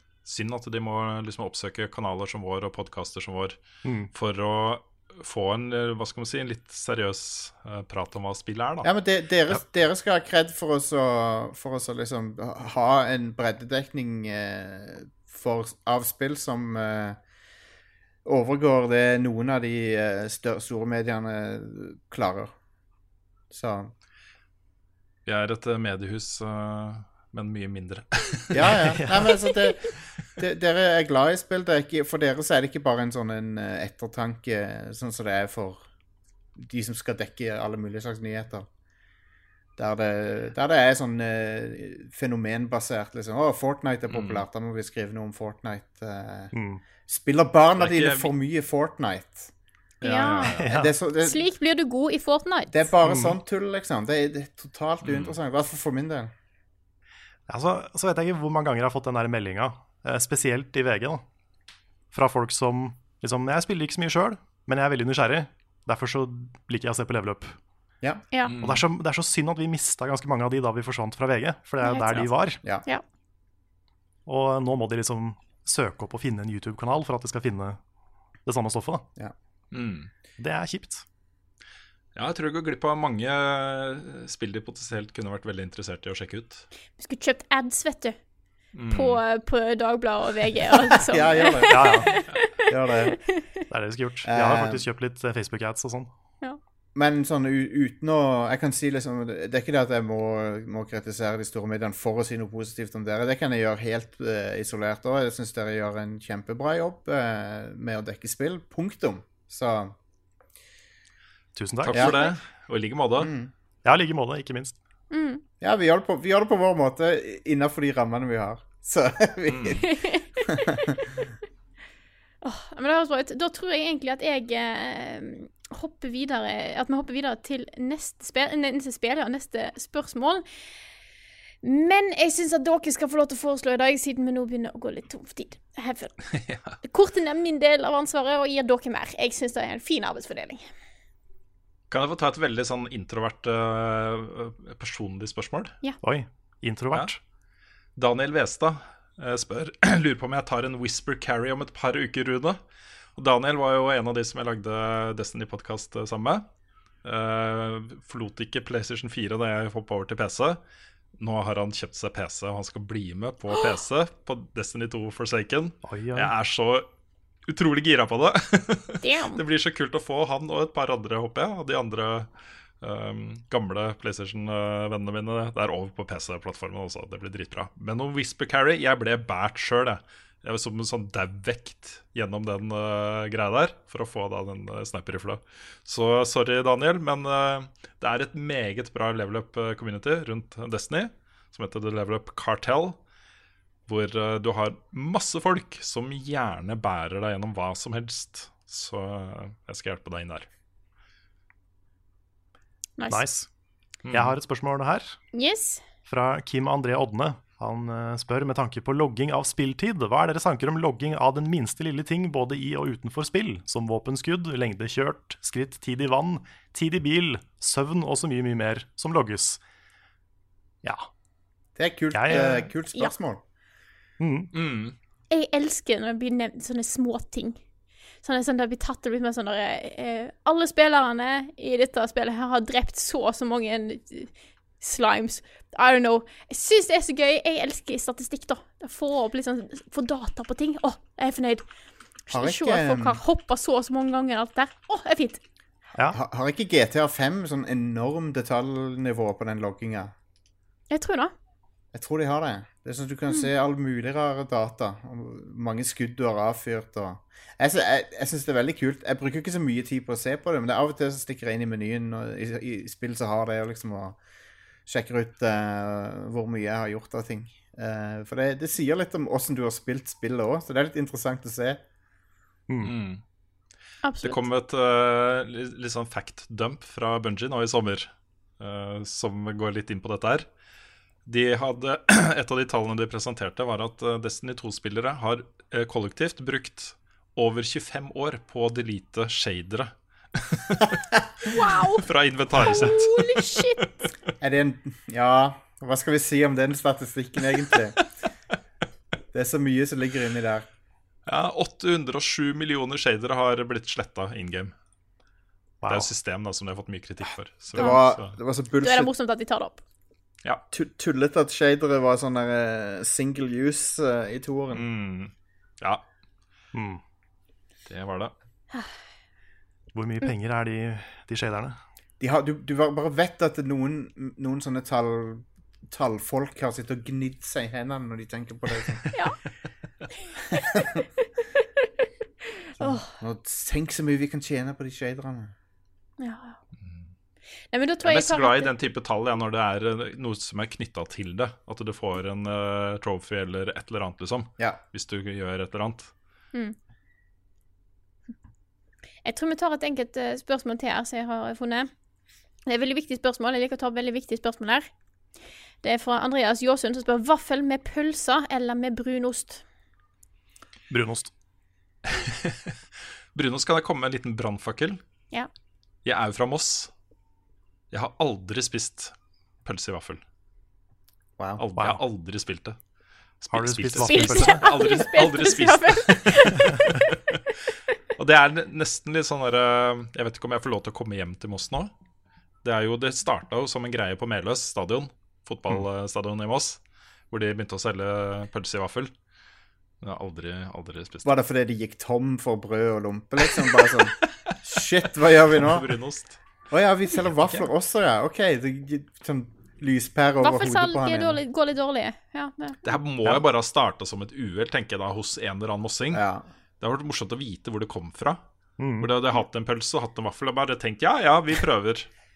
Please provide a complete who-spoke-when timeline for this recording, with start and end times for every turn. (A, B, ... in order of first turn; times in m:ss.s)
0:00.2-0:03.6 A
0:04.1-0:08.9 A
0:08.8-0:17.2 B
0:18.2-0:22.5 B
0:23.5-0:23.9 B
0:25.3-0:28.8 A
0:28.5-0:35.8 B
0:28.6-0:29.5 C
0:36.6-0:38.7 B
0:39.8-0:46.5 B
0:44.1-0:44.4 A
0:46.5-0:46.8 C
0:47.0-0:49.5 B
0:47.8-0:48.3 A
0:50.0-0:50.6 A
0:50.0-0:50.6 D
0:50.6-0:50.9 C
0:50.6-0:51.4 B
0:51.2-0:52.8 D
0:52.7-0:56.3 B
0:53.0-0:53.4 C
0:55.0-0:55.4 A
0:57.5-1:01.2 C
1:02.1-1:07.6 C
1:08.5-1:08.8 A
1:08.6-1:12.6 C
1:11.8-1:13.0 D
1:14.3-1:17.8 C
1:18.4-1:19.1 C
1:19.7-1:20.1 A
1:20.4-1:21.0 C
1:22.2-1:26.7 A
1:27.0-1:28.2 D
1:28.7-1:29.2 A
1:28.9-1:32.6 D
1:31.0-1:32.1 B
1:31.7-1:32.1 C
1:32.7-1:33.2 B
1:33.7-1:36.1 C
1:34.2-1:34.8 B
1:37.0-1:50.0 B
1:51.6-1:52.1 C
1:51.8-1:53.3 A
1:51.9-1:52.2 B
1:53.2-1:53.5 B
1:53.8-1:54.8 C
1:55.1-1:55.4 D
1:55.6-1:59.9 B
1:59.5-1:59.8 A
1:59.8-2:00.7 D
2:02.4-2:10.4 D
2:11.6-2:16.2 D
2:16.3-2:16.8 A
2:16.8-2:20.7 D
2:21.9-2:25.8 A
2:26.0-2:27.2 C
2:28.0-2:32.6 A
2:33.2-2:36.5 A
2:37.0-2:40.6 A
2:41.2-2:46.9 A
2:45.8-2:46.3 C
2:47.5-2:52.3 A
2:49.0-2:49.4 D
2:52.8-3:13.0 A
3:13.9-3:20.5 A
3:23.0-3:23.2 D
3:23.1-3:23.5 C
3:24.0-3:24.4 A
3:24.1-3:25.2 C
3:25.3-3:25.8 D
3:26.1-3:39.6 C
3:40.8-3:41.1 C
3:41.8-3:43.4 B
3:42.1-3:42.6 C
3:42.3-3:43.1 D
3:44.2-3:44.5 C
3:44.5-3:45.0 A
3:45.3-3:47.6 D
3:48.2-4:01.7 D
4:02.3-4:05.4 D
4:02.3-4:03.2 B
4:06.1-4:10.1 B
4:10.9-4:11.3 D
4:11.9-4:24.2 B
4:24.9-4:31.8 B
4:32.8-4:33.2 A
4:34.0-4:34.4 D
4:34.2-4:40.5 A
4:41.3-4:51.0 A
4:51.5-4:52.0 D
4:52.0-4:53.6 A
4:52.6-4:53.9 D
4:54.4-4:58.0 B
4:59.3-5:00.7 B
5:01.3-5:04.7 A
5:05.8-5:06.1 C
5:05.9-5:08.3 A
5:07.7-5:09.1 B
5:08.8-5:09.8 D
5:10.7-5:14.9 B
5:14.7-5:16.0 A
5:16.7-5:17.0 C
5:17.9-5:18.3 A
5:18.7-5:19.0 D
5:19.9-5:21.8 C
5:22.2-5:29.0 B
5:30.7-5:31.0 B
5:32.8-5:35.5 B
5:32.8-5:33.1 D
5:36.2-5:36.6 D
5:36.8-5:37.1 A
5:37.7-5:38.7 D
5:38.0-5:46.1 A
5:49.2-5:51.9 D
5:52.7-5:54.9 D
5:55.8-5:59.6 D
6:00.9-6:01.3 C
6:02.1-6:02.7 A
6:03.3-6:05.0 A
6:06.0-6:06.9 A
6:07.9-6:10.2 A
6:11.6-6:12.8 A
6:13.4-6:17.4 A
6:13.5-6:14.7 C
6:14.1-6:16.7 D
6:18.2-6:21.9 A
6:22.6-6:29.1 A
6:30.0-6:31.4 A
6:31.2-6:35.9 B
6:35.6-6:36.4 A
6:36.7-6:41.4 B
6:40.4-6:42.8 D
6:42.8-6:46.2 A
6:46.1-6:46.5 B
6:46.8-6:48.4 A
6:48.8-6:49.1 C
6:49.0-6:52.1 A